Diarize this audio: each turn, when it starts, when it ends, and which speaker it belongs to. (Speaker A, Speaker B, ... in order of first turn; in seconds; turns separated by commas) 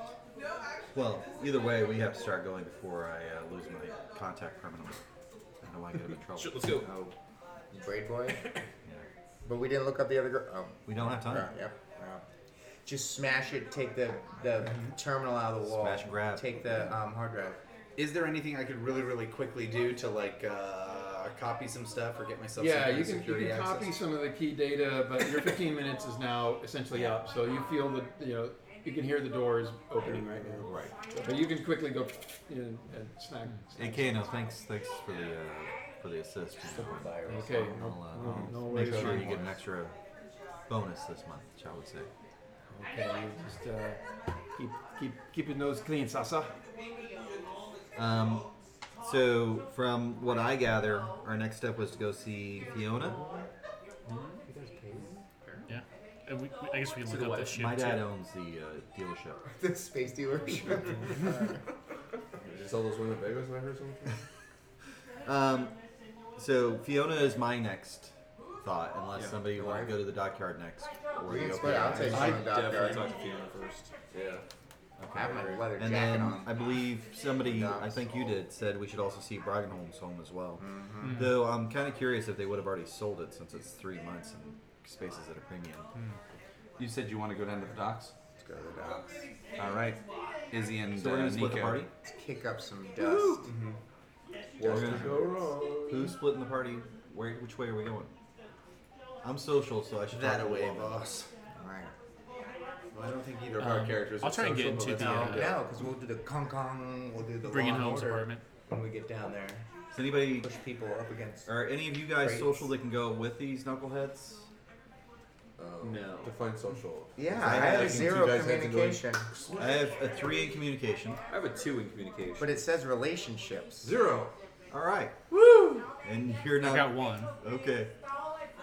Speaker A: 0.9-5.0, Speaker A: 5.6-7.1, Speaker B: 6.3-6.9, Speaker C: 7.7-8.5, Speaker C: 9.4-12.2, Speaker A: 10.8-11.5, Speaker C: 12.8-17.6, Speaker A: 15.6-16.9, Speaker D: 17.9-23.9, Speaker E: 22.6-34.3, Speaker A: 30.6-30.9, Speaker A: 33.7-39.9, Speaker C: 36.8-37.5, Speaker E: 37.2-39.4, Speaker F: 38.7-39.4, Speaker A: 40.7-42.1, Speaker E: 42.7-44.0, Speaker E: 44.5-46.6, Speaker A: 47.9-48.5, Speaker A: 49.0-53.2, Speaker C: 52.6-53.5, Speaker G: 54.1-54.4, Speaker C: 54.5-55.6, Speaker G: 55.7-58.1, Speaker B: 57.0-57.8, Speaker A: 57.5-59.4, Speaker C: 59.6-61.6, Speaker F: 62.4-64.2, Speaker A: 65.2-65.8, Speaker A: 66.3-72.6, Speaker C: 69.5-70.0, Speaker C: 71.3-73.2, Speaker B: 71.9-73.9, Speaker F: 74.1-74.4, Speaker A: 75.0-85.9, Speaker C: 75.1-76.6, Speaker C: 77.3-78.2, Speaker C: 80.6-81.3, Speaker G: 81.0-81.3, Speaker D: 86.8-88.2, Speaker D: 89.5-91.9, Speaker A: 90.9-91.9, Speaker C: 92.0-93.5, Speaker D: 93.3-93.8, Speaker F: 94.6-96.2, Speaker A: 94.6-98.1, Speaker A: 99.2-101.1, Speaker D: 100.1-101.3, Speaker C: 101.5-101.9, Speaker D: 102.9-105.5, Speaker G: 103.6-105.6, Speaker C: 105.3-109.7, Speaker G: 107.4-108.4, Speaker A: 109.9-110.5, Speaker C: 110.3-112.7, Speaker A: 111.5-114.5, Speaker F: 115.6-119.8, Speaker B: 115.8-116.3, Speaker C: 117.2-119.3, Speaker A: 117.4-118.3, Speaker A: 119.5-121.2, Speaker B: 121.3-122.6, Speaker C: 122.4-123.9, Speaker F: 123.8-124.3, Speaker A: 124.7-127.9, Speaker G: 126.6-127.3